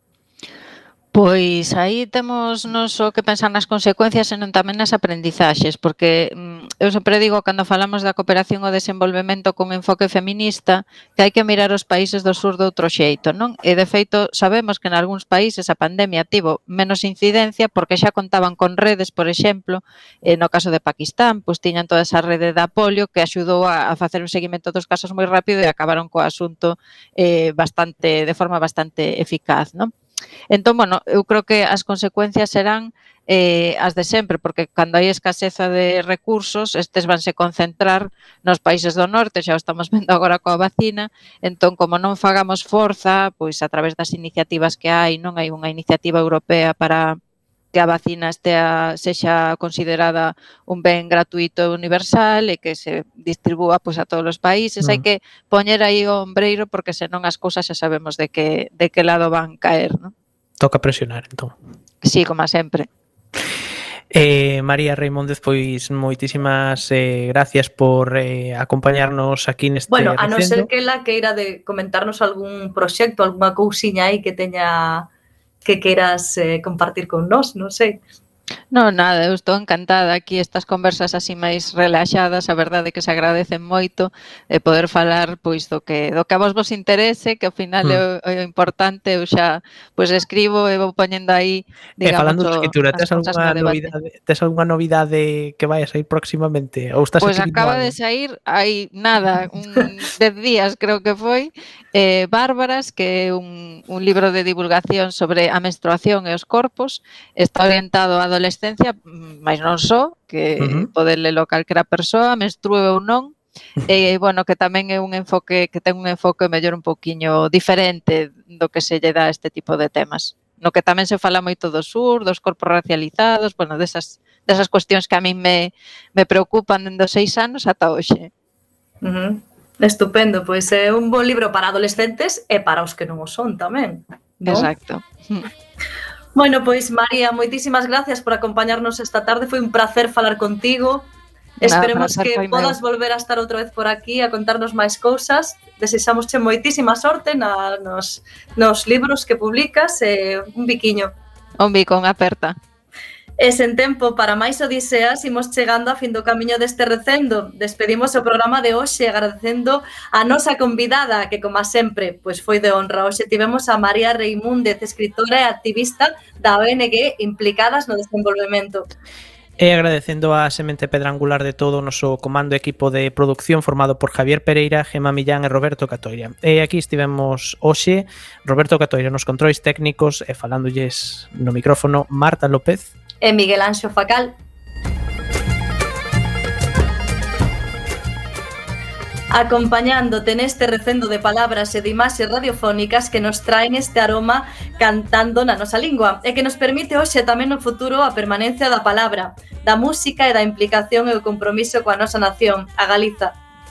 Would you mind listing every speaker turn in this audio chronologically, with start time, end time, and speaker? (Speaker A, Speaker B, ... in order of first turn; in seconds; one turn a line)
Speaker A: 1.1-29.9
Speaker A: 30.5-47.2
Speaker A: 47.7-60.1
Speaker B: 60.6-61.5
Speaker A: 62.0-62.9
Speaker B: 64.1-70.7
Speaker C: 69.9-75.1
Speaker C: 75.7-78.0
Speaker A: 78.7-93.9
Speaker B: 92.0-97.9
Speaker A: 97.2-128.3
Speaker B: 110.6-110.9
Speaker C: 129.0-134.7
Speaker A: 134.5-135.5
Speaker C: 136.3-141.1
Speaker C: 141.6-151.1
Speaker A: 141.6-142.8
Speaker A: 151.6-152.6
Speaker C: 153.4-168.9
Speaker B: 169.6-182.9
Speaker C: 183.2-184.3
Speaker C: 189.3-203.4